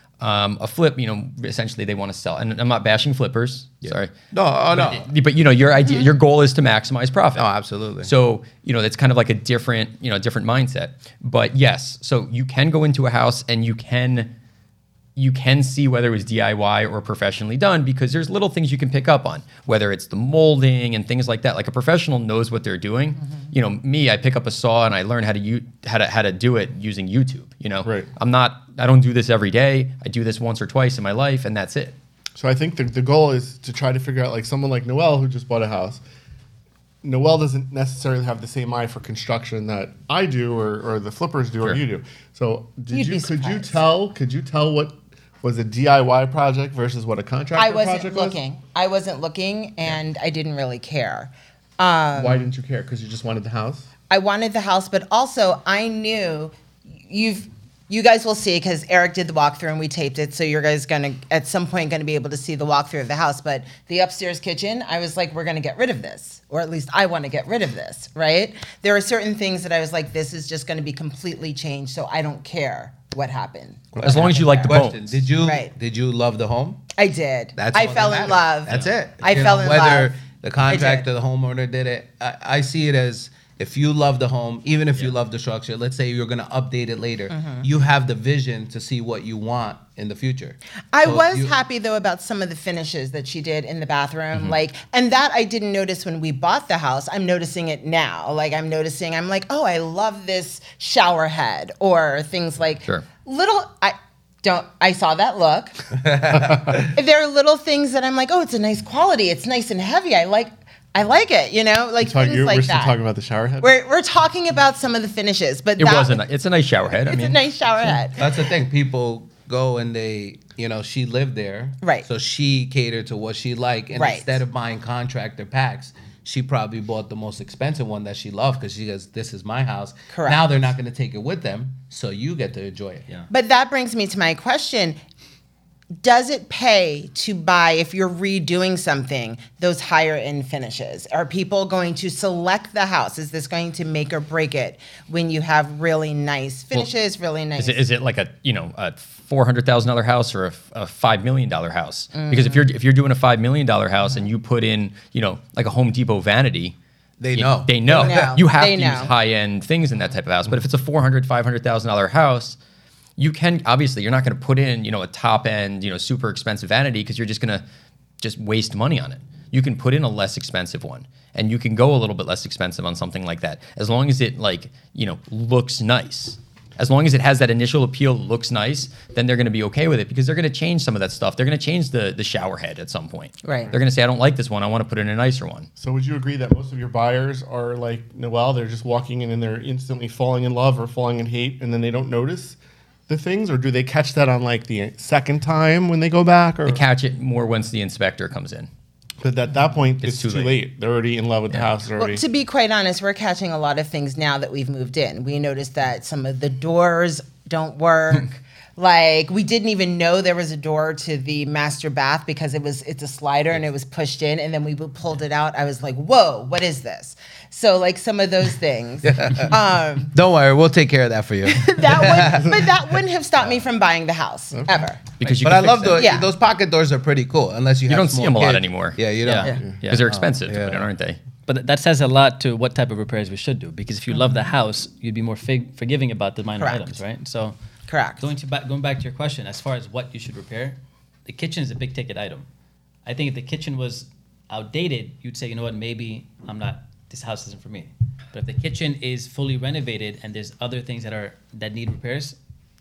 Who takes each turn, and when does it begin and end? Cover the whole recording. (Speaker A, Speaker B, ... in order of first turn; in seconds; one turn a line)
Speaker A: 0.2-4.1
Speaker B: 3.8-5.1
Speaker A: 4.7-7.5
Speaker B: 7.4-8.1
Speaker A: 8.0-14.3
Speaker A: 15.2-32.0
Speaker C: 27.8-28.1
Speaker C: 32.4-36.0
Speaker C: 37.0-48.4
Speaker D: 42.9-43.8
Speaker D: 47.6-52.4
Speaker C: 52.1-53.9
Speaker D: 54.1-56.5
Speaker D: 57.1-74.8
Speaker C: 73.9-74.3
Speaker A: 74.0-75.2
Speaker B: 74.7-76.8
Speaker D: 75.4-75.7
Speaker D: 77.0-80.1
Speaker B: 77.6-91.6
Speaker D: 80.7-81.1
Speaker D: 87.3-87.7
Speaker D: 90.9-106.0
Speaker B: 106.0-106.9
Speaker D: 106.7-113.0
Speaker C: 112.0-113.7
Speaker D: 113.6-116.2
Speaker A: 115.8-117.4
Speaker D: 116.9-118.3
Speaker B: 118.2-133.1
Speaker D: 123.9-124.4
Speaker D: 130.1-130.4
Speaker D: 133.3-135.0
Speaker D: 136.0-147.8
Speaker A: 147.6-156.8
Speaker D: 152.1-152.7
Speaker B: 157.2-158.4
Speaker A: 157.3-162.6
Speaker D: 157.9-159.1
Speaker A: 163.2-167.6
Speaker A: 168.2-185.7
Speaker D: 183.4-183.7
Speaker C: 185.8-192.6
Speaker C: 193.1-196.8
Speaker A: 196.7-198.7
Speaker C: 199.2-202.2
Speaker A: 200.0-200.6
Speaker D: 202.0-220.1
Speaker B: 219.0-219.5
Speaker B: 220.1-222.7
Speaker D: 221.5-225.1
Speaker A: 225.2-226.1
Speaker B: 225.4-230.9
Speaker D: 226.0-226.3
Speaker A: 227.9-229.0
Speaker E: 229.2-230.2
Speaker A: 229.9-231.2
Speaker E: 231.5-237.6
Speaker D: 236.6-236.9
Speaker D: 237.9-238.3
Speaker E: 238.2-242.5
Speaker E: 243.1-252.4